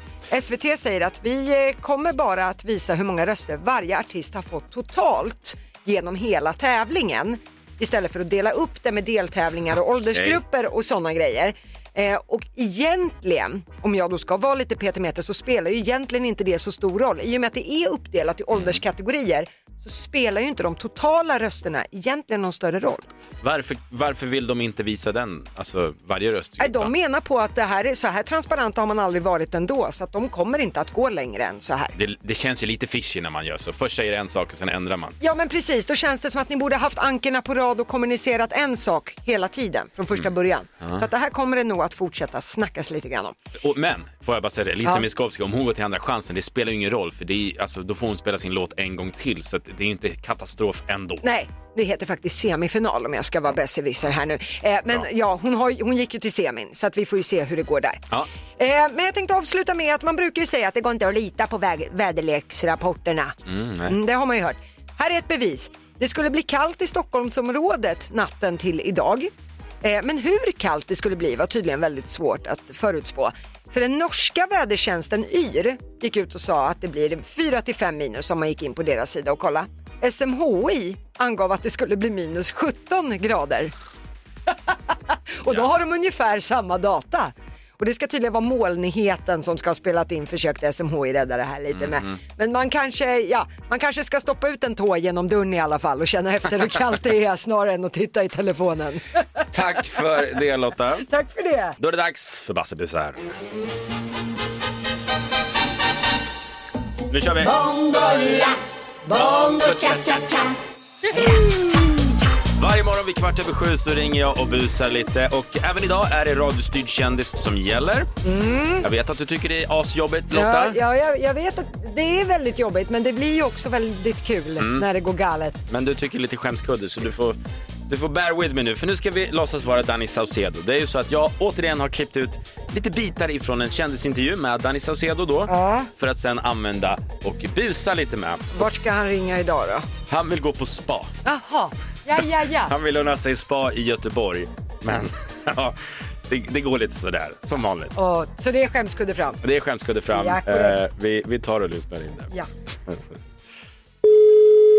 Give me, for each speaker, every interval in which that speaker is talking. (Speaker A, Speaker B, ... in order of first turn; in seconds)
Speaker A: 0.3-23.1, 26.6-31.9, 35.2-43.3, 51.2-58.0, 58.6-63.3, 63.9-69.3, 69.8-83.7, 85.4-99.0, 101.1-101.8, 107.6-108.5, 109.1-110.0, 111.2-111.8, 118.2-118.8, 120.3-125.5, 135.5-135.9, 138.5-139.8, 141.2-142.7, 147.9-149.4, 150.1-150.8
Speaker B: 10.1-10.4, 18.5-18.8, 23.4-26.9, 31.9-35.1, 40.8-41.0, 43.6-51.2, 63.5-63.9, 91.7-92.2, 99.5-101.1, 101.8-103.2, 107.1-107.5, 109.1-110.4, 112.6-118.1, 118.8-120.8, 124.6-124.8, 125.7-127.4, 127.9-138.6, 140.1-141.1, 142.7-145.8, 146.3-147.9, 149.4-152.3